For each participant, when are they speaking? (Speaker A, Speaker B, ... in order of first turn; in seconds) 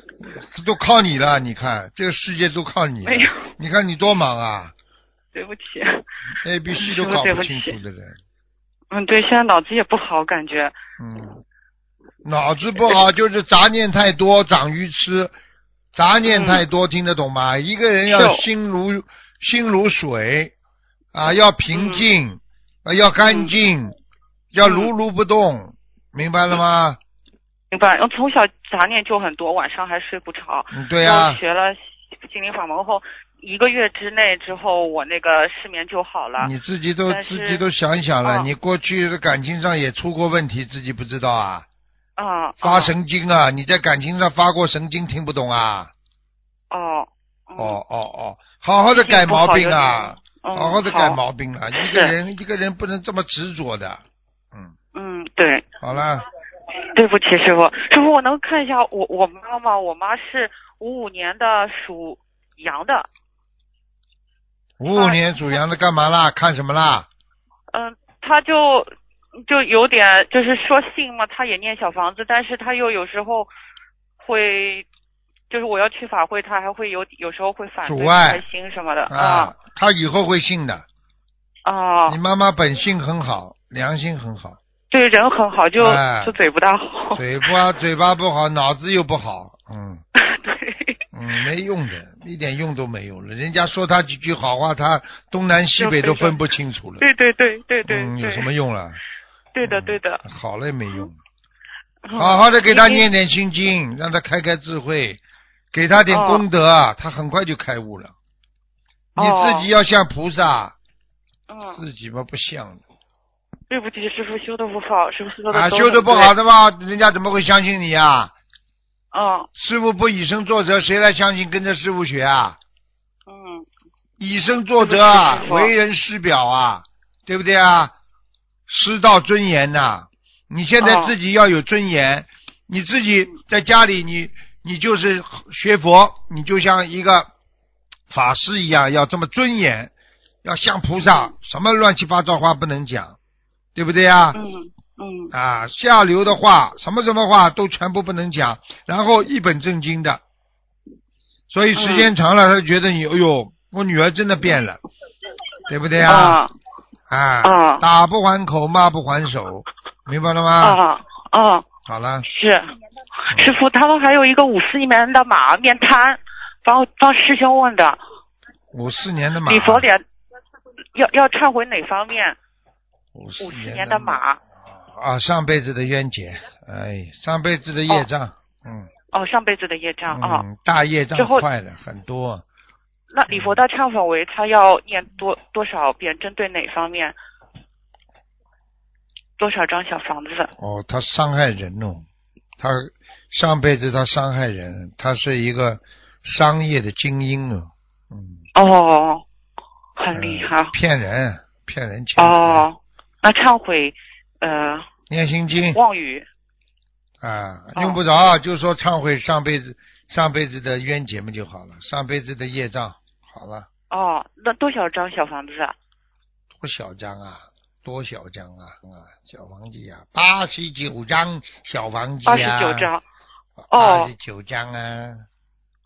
Speaker A: 0.2-4.7, 6.4-8.2, 11.0-11.4, 12.2-15.3, 15.9-20.5, 21.1-24.0, 24.5-27.0, 30.7-31.4, 36.4-41.6, 42.6-45.9, 47.5-54.0, 55.8-56.2, 64.8-67.1, 77.8-78.4, 79.1-80.8, 82.1-84.6, 85.8-86.3, 87.1-90.0, 91.1-97.0, 97.8-99.0, 99.6-101.1, 102.1-105.2, 105.7-108.1, 109.1-110.7, 111.8-112.8, 115.5-118.3, 119.5-122.6, 124.2-127.9, 128.7-137.3, 138.1-139.9, 140.4-143.2, 143.7-144.4, 145.3-150.2, 151.5-154.8, 155.7-156.4, 157.1-160.8, 161.8-162.2, 163.3-163.6, 168.7-169.9, 173.1-178.9, 180.1-182.4, 183.3-183.6, 190.6-192.1, 192.6-198.4, 200.1-202.7, 205.1-205.8, 207.2-213.7, 216.5-222.9, 223.7-225.2
Speaker B: 3.0-3.4, 5.3-6.0, 6.7-7.8, 8.9-10.7, 16.2-16.6, 18.1-18.4, 21.7-22.0, 23.2-23.5, 24.6-24.9, 27.7-36.5, 37.1-37.6, 38.2-38.5, 42.2-42.9, 46.7-47.8, 48.9-51.2, 51.7-52.1, 54.9-55.6, 56.8-63.1, 64.9-65.2, 67.7-73.5, 74.2-74.8, 75.5-79.5, 81.6-82.2, 84.9-87.2, 90.2-91.0, 95.8-96.4, 97.0-98.5, 99.5-100.2, 102.0-103.0, 106.1-106.4, 109.2-109.7, 111.5-111.8, 113.7-116.3, 119.1-119.5, 123.3-123.7, 124.8-125.7, 130.8-131.1, 144.3-145.3, 151.7-152.1, 156.0-156.5, 157.4-157.8, 160.6-161.6, 162.2-168.0, 169.4-170.0, 170.9-172.4, 173.4-174.4, 179.1-180.4, 181.2-181.5, 183.1-187.2, 189.4-190.5, 198.5-199.2, 200.0-200.8, 202.2-204.9, 205.7-206.3, 207.7-208.0, 213.9-215.7, 222.2-223.0, 223.7-224.1